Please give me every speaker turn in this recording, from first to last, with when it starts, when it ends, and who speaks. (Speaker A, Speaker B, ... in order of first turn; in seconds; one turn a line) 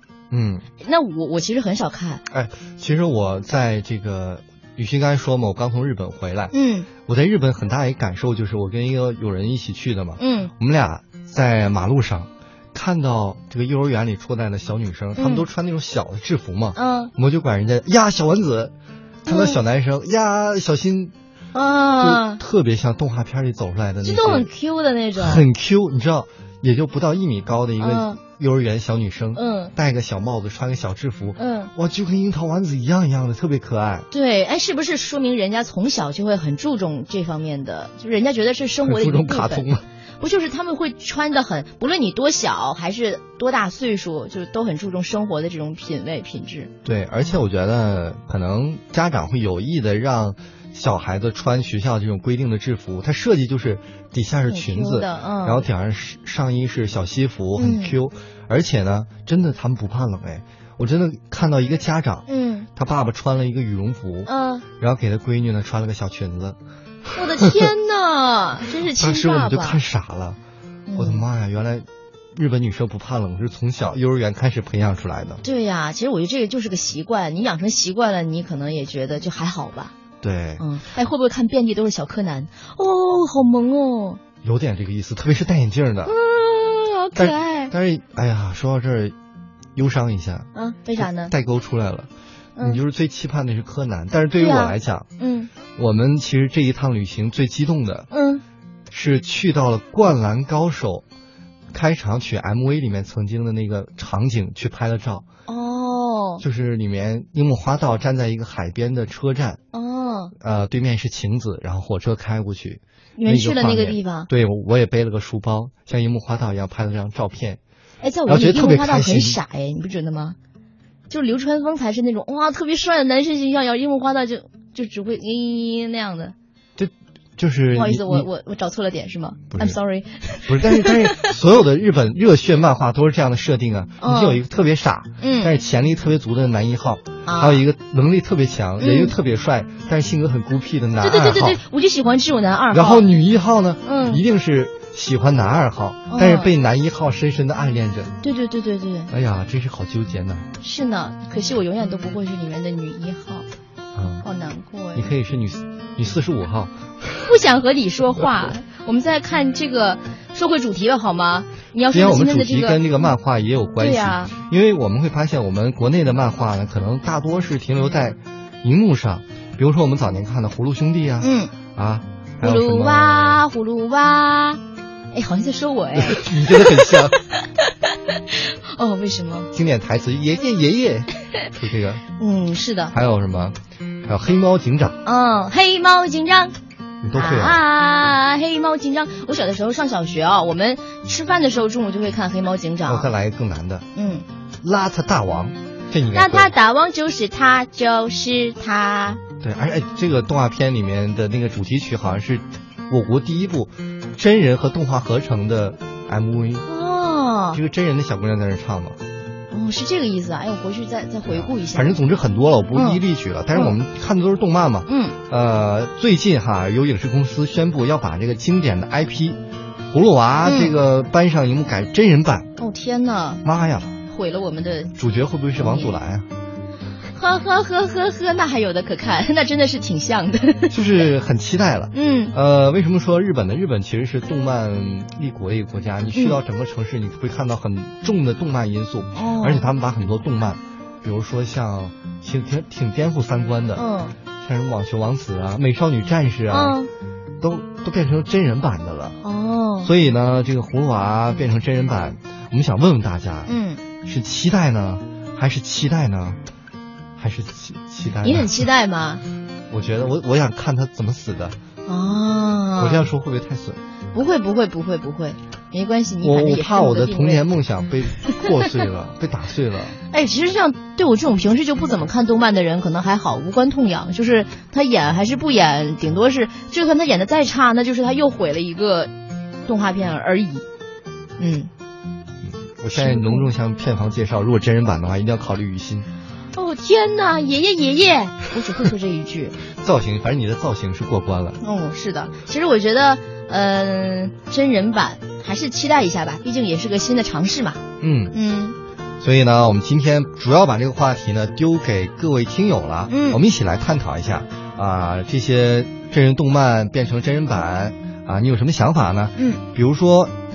Speaker A: 0.3-0.7
Speaker B: 0.8-2.2
Speaker A: 2.3-6.5
Speaker B: 6.5-6.9
Speaker A: 7.0-21.1
Speaker B: 10.2-10.5
Speaker B: 15.2-15.5
Speaker B: 16.7-17.1
Speaker B: 19.3-19.6
Speaker B: 21.5-22.4
Speaker A: 22.0-24.5
Speaker B: 24.0-25.4
Speaker A: 25.2-34.1
Speaker B: 27.8-28.2
Speaker B: 29.3-29.7
Speaker B: 31.4-31.7
Speaker B: 34.1-39.7
Speaker A: 38.8-39.8
Speaker B: 40.2-46.7
Speaker A: 46.8-67.7
Speaker B: 54.5-55.6
Speaker B: 57.6-58.0
Speaker B: 62.3-62.7
Speaker B: 64.2-64.6
Speaker B: 67.1-69.8
Speaker A: 68.9-70.4
Speaker B: 70.9-71.2
Speaker A: 71.0-75.4
Speaker B: 75.4-79.9
Speaker A: 80.2-80.7
Speaker B: 80.6-84.2
Speaker A: 84.4-86.1
Speaker B: 86.0-87.7
Speaker A: 87.2-89.1
Speaker A: 89.8-95.1
Speaker B: 90.5-91.3
Speaker B: 94.4-95.5
Speaker A: 95.7-98.1
Speaker B: 98.1-98.4
Speaker A: 98.9-101.0
Speaker A: 101.7-105.2
Speaker B: 105.5-106.4
Speaker A: 106.4-109.6
Speaker B: 109.7-110.3
Speaker A: 110.4-117.6
Speaker B: 113.2-114.3
Speaker B: 118.0-120.3
Speaker A: 118.3-119.4
Speaker B: 121.1-126.3
Speaker A: 126.8-128.3
Speaker B: 127.7-131.3
Speaker A: 130.5-141.6
Speaker B: 134.0-134.4
Speaker B: 135.2-135.5
Speaker B: 137.2-137.6
Speaker B: 138.8-139.1
Speaker B: 141.0-143.1
Speaker A: 142.7-148.2
Speaker B: 143.8-144.2
Speaker B: 146.1-146.5
Speaker B: 148.2-149.1
Speaker A: 149.1-150.5
Speaker B: 150.6-153.4
Speaker A: 153.9-154.2
Speaker B: 154.2-155.1
Speaker A: 154.9-157.3
Speaker B: 157.2-163.1
Speaker A: 161.9-173.4
Speaker B: 163.8-164.3
Speaker B: 171.2-171.5
Speaker B: 172.4-174.6
Speaker B: 175.1-179.5
Speaker A: 175.9-177.2
Speaker A: 179.5-182.0
Speaker B: 182.2-182.9
Speaker A: 182.9-185.0
Speaker B: 185.0-186.5
Speaker A: 187.0-187.6
Speaker B: 187.1-193.1
Speaker A: 192.8-193.9
Speaker B: 193.9-194.2
Speaker A: 194.6-196.5
Speaker B: 196.1-199.2
Speaker A: 199.4-206.7
Speaker B: 206.7-207.6
Speaker A: 207.5-209.0
Speaker B: 209.5-211.9
Speaker A: 211.3-219.4
Speaker B: 212.7-213.0
Speaker B: 214.9-215.2
Speaker A: 219.9-222.5
Speaker B: 220.4-220.8
Speaker B: 222.6-223.4
Speaker A: 223.4-224.0
Speaker B: 224.1-224.9
Speaker A: 225.0-226.3
Speaker B: 225.6-225.9
Speaker B: 227.1-230.8
Speaker A: 230.7-243.8
Speaker B: 231.9-232.3
Speaker B: 236.1-236.4
Speaker B: 239.1-239.7
Speaker B: 243.8-244.1
Speaker A: 244.4-246.8
Speaker B: 246.5-246.9
Speaker A: 247.4-249.2
Speaker B: 249.2-249.9
Speaker A: 249.8-253.5
Speaker B: 253.4-253.8
Speaker A: 254.0-256.4
Speaker A: 257.2-258.6
Speaker B: 258.2-259.2
Speaker A: 259.7-261.6
Speaker B: 261.9-263.1
Speaker A: 262.8-263.8
Speaker B: 264.1-267.4
Speaker A: 266.2-270.0
Speaker B: 270.1-279.1
Speaker B: 279.6-280.6
Speaker B: 281.4-281.7
Speaker A: 282.5-286.1
Speaker B: 282.9-283.5
Speaker B: 286.5-289.6
Speaker A: 289.7-291.6
Speaker B: 291.6-297.8
Speaker A: 298.0-298.4
Speaker B: 298.3-298.8
Speaker A: 299.2-310.3
Speaker B: 303.1-303.4